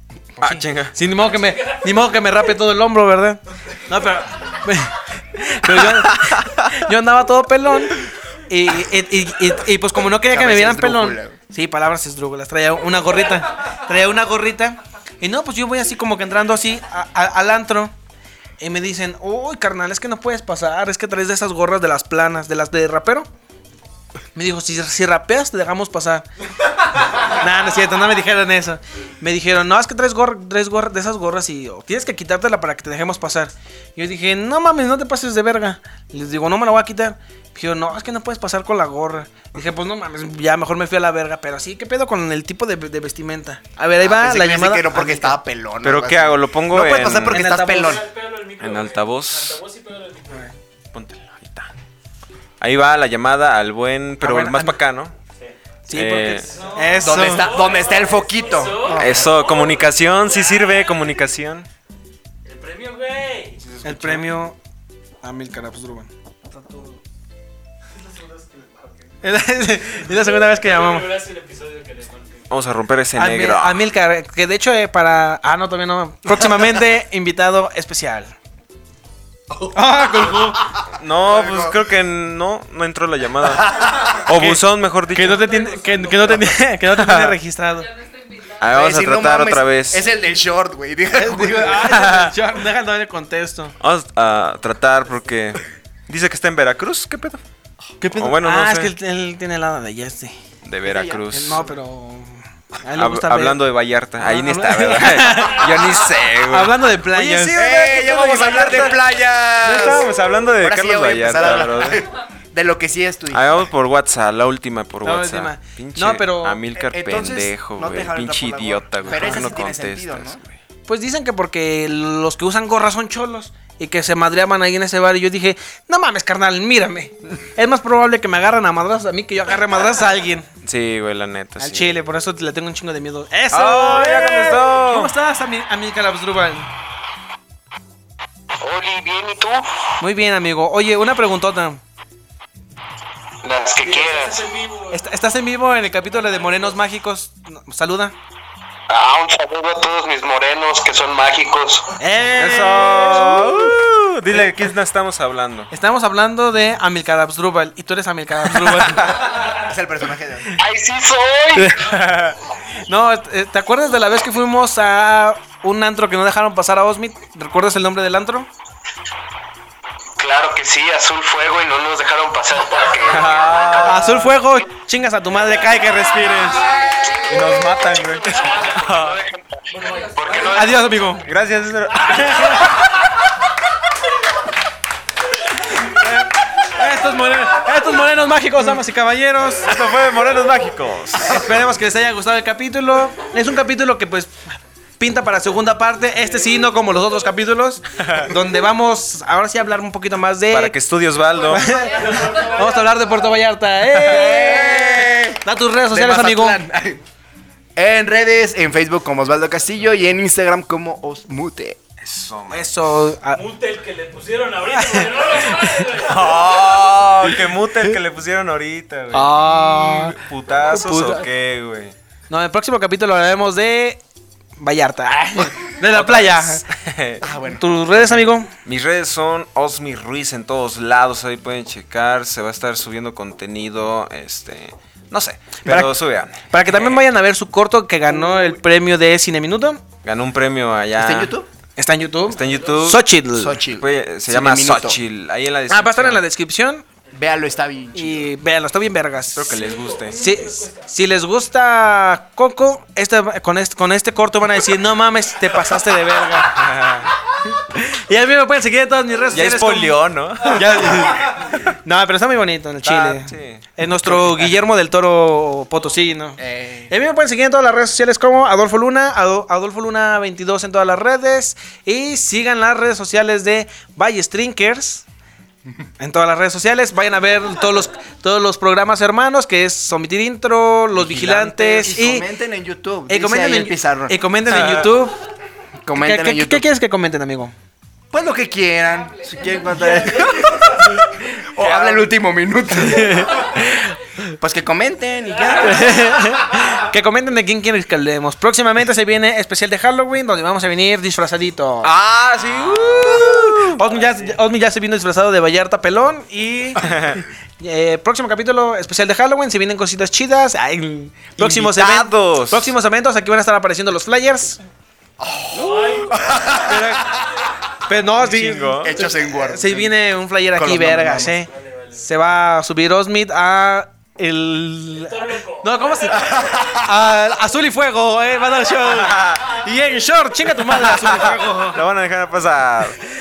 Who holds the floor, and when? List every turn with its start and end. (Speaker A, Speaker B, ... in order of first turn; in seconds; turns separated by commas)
Speaker A: 0.4-0.9, Speaker B: 0.4-17.9, Speaker C: 1.4-2.0, Speaker A: 5.7-6.8, Speaker D: 10.2-11.4, Speaker B: 18.6-23.3, Speaker B: 24.4-26.3, Speaker B: 27.1-45.4, Speaker D: 44.0-48.1, Speaker A: 45.8-47.5, Speaker B: 47.3-48.0, Speaker C: 47.7-50.5, Speaker A: 48.6-49.6, Speaker A: 50.9-51.7, Speaker A: 52.6-55.1, Speaker B: 54.2-54.8, Speaker B: 55.9-57.6, Speaker A: 55.9-56.5, Speaker C: 56.4-61.2, Speaker D: 57.0-59.4, Speaker A: 58.9-61.7, Speaker C: 62.5-63.6, Speaker A: 63.6-64.4, Speaker B: 63.8-64.6, Speaker B: 65.2-66.1, Speaker B: 69.2-71.2, Speaker C: 70.1-72.5, Speaker A: 72.5-73.8, Speaker B: 73.2-78.3, Speaker B: 79.7-80.8, Speaker A: 80.9-85.6, Speaker D: 81.3-81.8, Speaker B: 84.1-84.6, Speaker B: 85.1-88.0, Speaker A: 86.9-87.3, Speaker A: 88.6-90.1, Speaker D: 88.6-92.1, Speaker B: 91.2-93.8, Speaker A: 91.9-92.3, Speaker A: 93.8-97.4, Speaker B: 98.0-100.4, Speaker A: 98.1-98.9, Speaker A: 100.6-101.7, Speaker D: 100.8-101.3, Speaker B: 101.3-103.6, Speaker A: 103.0-112.1, Speaker B: 104.2-107.6, Speaker C: 105.3-106.1, Speaker D: 107.5-113.7, Speaker A: 113.3-120.6, Speaker B: 115.0-116.6, Speaker D: 116.8-120.4, Speaker B: 119.1-119.5, Speaker B: 120.9-130.5, Speaker A: 130.6-131.9, Speaker B: 131.6-136.7, Speaker A: 133.5-135.1, Speaker E: 138.6-139.7, Speaker B: 140.0-141.8, Speaker E: 143.4-144.5, Speaker C: 143.8-145.0, Speaker B: 144.9-148.2, Speaker C: 146.0-146.8, Speaker E: 148.9-151.9, Speaker B: 152.0-153.8, Speaker A: 152.3-155.7, Speaker B: 155.7-159.5, Speaker A: 158.6-159.0, Speaker D: 159.2-160.6, Speaker E: 160.5-161.8, Speaker B: 161.5-162.0, Speaker A: 161.8-162.4, Speaker B: 162.8-168.5, Speaker E: 170.2-173.7, Speaker A: 173.0-174.4, Speaker B: 173.8-176.8, Speaker A: 177.2-179.2, Speaker C: 178.2-179.1, Speaker E: 178.9-180.9, Speaker C: 179.7-181.2, Speaker B: 180.4-181.3, Speaker A: 181.2-182.7, Speaker B: 181.9-182.8, Speaker C: 182.1-182.8, Speaker B: 185.6-189.8, Speaker A: 189.6-191.6, Speaker B: 191.2-200.8, Speaker A: 198.0-198.3, Speaker A: 200.5-201.7, Speaker B: 201.5-206.6, Speaker C: 201.7-203.3, Speaker D: 204.0-207.0, Speaker D: 207.8-211.8, Speaker A: 212.0-213.1, Speaker B: 212.5-213.4, Speaker C: 213.3-216.6, Speaker B: 214.7-215.8, Speaker A: 215.9-221.9, Speaker B: 219.1-220.2, Speaker B: 220.7-221.3, Speaker B: 222.3-224.0, Speaker B: 224.6-226.8, Speaker A: 225.5-227.3, Speaker D: 227.2-227.6, Speaker B: 227.5-228.5, Speaker A: 227.9-237.0, Speaker B: 235.7-239.8, Speaker A: 240.0-241.4, Speaker D: 240.9-241.5, Speaker B: 241.8-243.6, Speaker A: 242.3-243.1, Speaker C: 242.4-242.7, Speaker D: 243.3-245.0, Speaker A: 243.7-246.2, Speaker B: 245.7-246.8, Speaker C: 247.1-247.7, Speaker D: 247.1-248.3, Speaker B: 247.9-275.1, Speaker A: 249.4-250.2, Speaker C: 249.5-251.0, Speaker A: 256.4-257.1, Speaker A: 259.3-261.5, Speaker A: 262.9-264.6, Speaker D: 266.4-266.9, Speaker B: 276.0-282.3, Speaker A: 281.0-281.6, Speaker D: 281.2-284.2, Speaker B: 283.1-285.2, Speaker A: 284.4-285.1, Speaker D: 285.9-286.7, Speaker B: 285.9-287.5, Speaker D: 288.1-293.5, Speaker C: 289.9-290.9, Speaker A: 291.6-292.1, Speaker A: 292.9-293.9, Speaker D: 294.3-296.1, Speaker B: 295.6-301.9, Speaker A: 301.8-304.0, Speaker B: 302.9-306.9, Speaker A: 306.8-307.2, Speaker B: 307.6-314.6, Speaker A: 311.4-312.7, Speaker D: 315.2-317.2, Speaker C: 315.5-317.6, Speaker B: 316.4-331.9, Speaker A: 318.2-318.9, Speaker D: 318.8-320.0, Speaker D: 320.5-321.4, Speaker C: 321.5-322.0, Speaker C: 324.9-326.8, Speaker D: 326.2-326.8, Speaker A: 328.9-329.6, Speaker A: 330.9-333.0